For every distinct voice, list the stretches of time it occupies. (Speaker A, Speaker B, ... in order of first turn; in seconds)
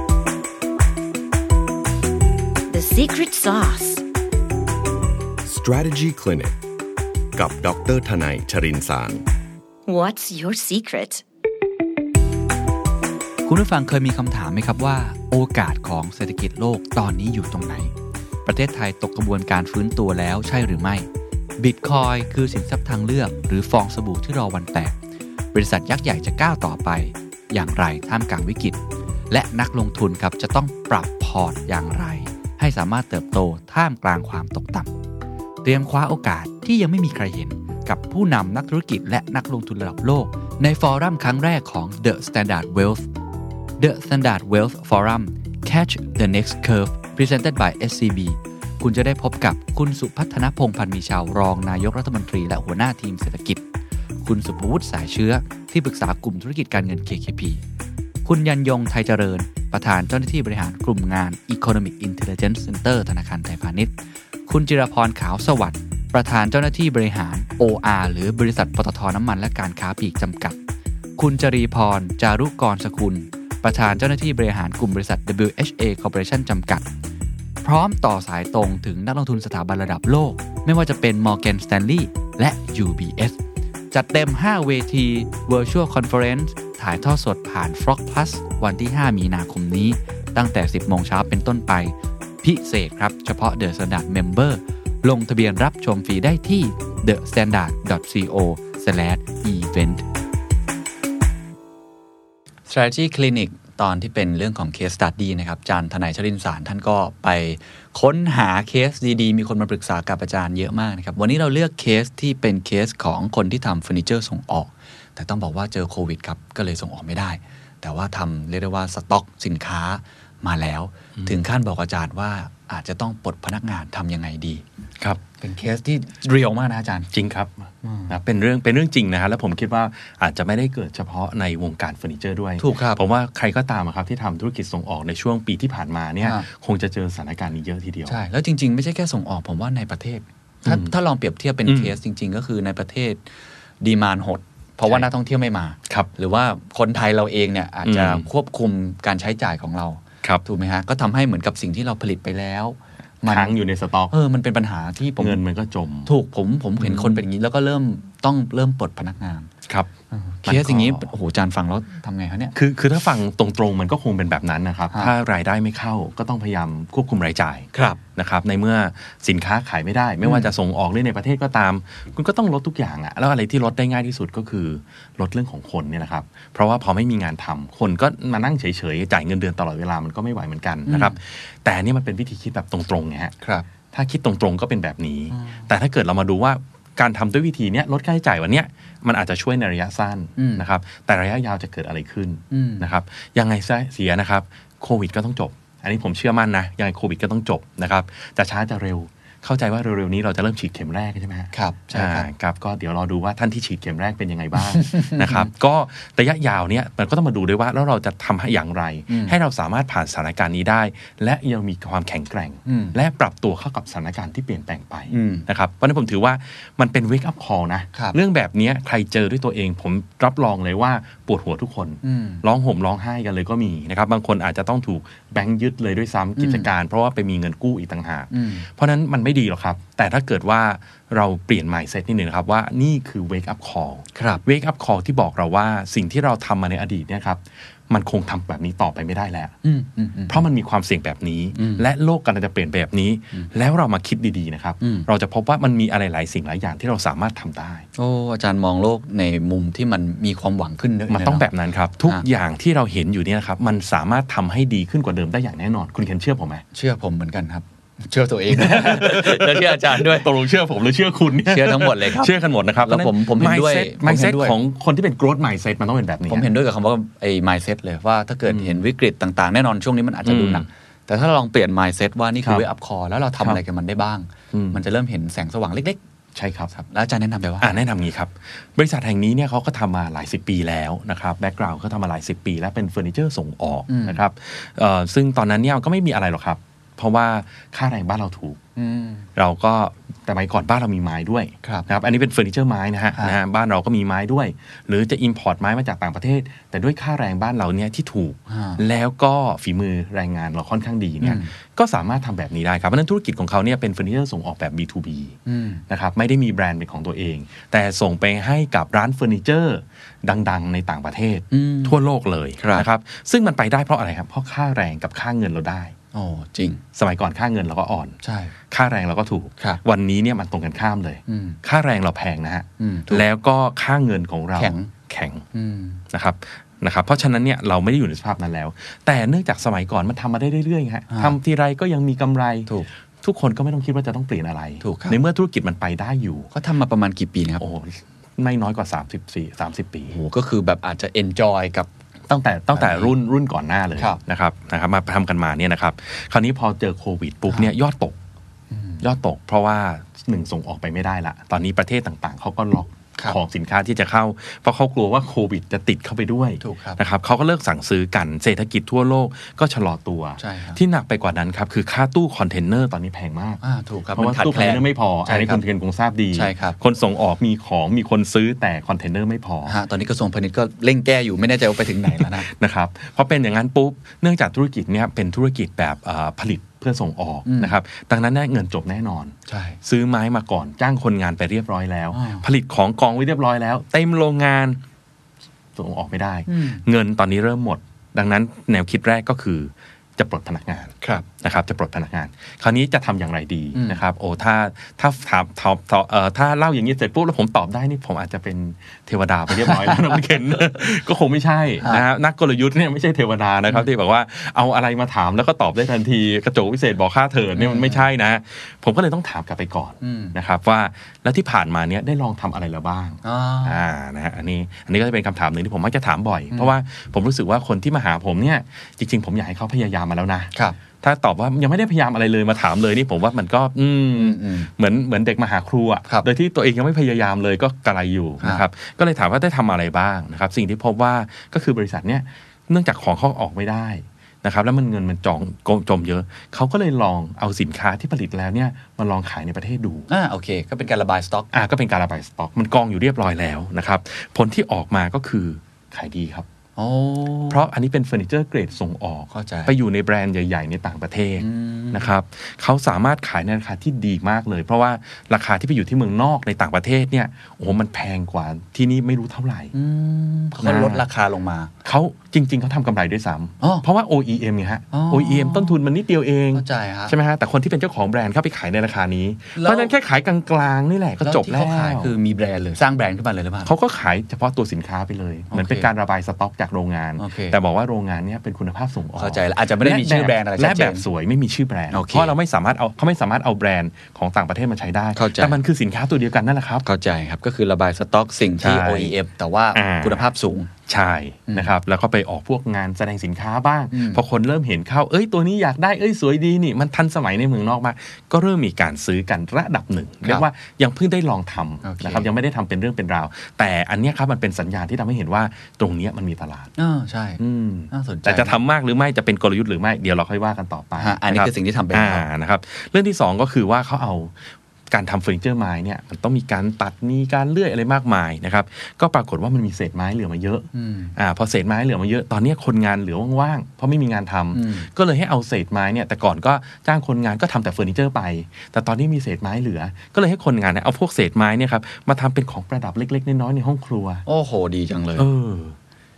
Speaker A: 2.7-4.0, 9.8-11.2
Speaker B: 5.4-6.5, 7.3-9.2
Speaker C: 13.4-17.9, 18.4-21.1, 21.6-24.9, 25.5-28.8, 29.3-34.9, 35.6-43.0, 43.8-53.6, 54.2-57.6, 58.2-63.9, 64.5-70.6, 71.2-76.8, 77.6-83.4, 83.9-100.0, 102.7-124.6, 125.4-127.1, 127.8-128.1, 132.6-133.0, 138.1-143.2, 143.8-153.5, 154.1-155.4, 156.1-159.5, 160.1-162.5, 167.7-168.0, 170.2-170.5, 180.9-181.2, 183.4-183.7, 185.3-185.6, 190.4-190.6, 192.5-192.8, 201.5-202.3, 204.7-205.5, 209.1-209.3, 212.7-212.9, 215.1-215.4, 222.0-222.4, 226.4-226.7, 228.3-228.7, 234.2-234.4, 239.6-240.4, 241.6-241.8, 244.8-245.1, 248.0-251.5, 256.7-260.3, 261.4-264.6, 266.3-276.0, 276.7-277.8, 283.9-284.2, 288.8-289.2, 298.5-298.8, 301.2-301.5, 305.4-305.8, 311.5-311.9, 312.6-312.9, 316.1-316.8, 318.2-318.5, 321.3-321.6, 322.8-323.2, 324.6-324.9, 325.5-326.0, 334.8-335.2, 336.5-337.6, 340.1-341.9, 342.7-343.1, 348.7-349.0, 356.6-357.0, 360.4-360.8, 363.6-365.6, 366.3-366.8, 369.6-372.5, 377.4-377.7, 379.5-379.8, 382.1-382.4, 386.5-386.8, 393.7-394.0, 399.6-400.0, 407.6-408.1, 410.0-410.3, 413.2-413.8, 424.1-424.7, 440.1-441.5, 446.8-447.6, 449.3-449.7, 451.4-452.1, 459.7-461.7, 464.9-465.8, 466.5-467.1, 469.5-469.9, 471.2-473.7, 475.5-475.9, 477.2-477.6, 479.1-481.1, 481.9-482.3, 485.1-485.6, 486.8-490.7, 493.9-494.2, 501.8-502.3, 506.8-508.6, 511.0-512.2, 520.7-521.1, 524.5-524.9, 534.2-535.3
Speaker D: 127.1-127.5, 128.1-138.2, 140.6-140.9, 141.6-141.9, 147.8-148.2, 153.3-154.1, 155.2-156.1, 156.8-157.2, 160.4-161.1, 162.5-183.3, 183.9-239.5, 240.3-247.8, 251.1-256.6, 258.5-266.5, 268.5-268.8, 270.2-270.7, 274.5-274.8, 276.3-276.7, 277.6-288.6, 289.4-305.4, 305.9-315.9, 316.9-318.2, 318.7-325.4, 326.1-332.7, 333.2-336.5, 337.6-340.1, 342.3-348.2, 349.0-363.6, 364.1-369.7, 372.1-384.8, 385.8-440.1, 441.5-446.4, 447.5-459.7, 460.6-461.0, 461.8-472.1, 473.6-486.9, 488.6-489.1, 489.7-490.3, 490.9-506.7, 507.4-514.3, 514.9-534.2, 535.1-535.8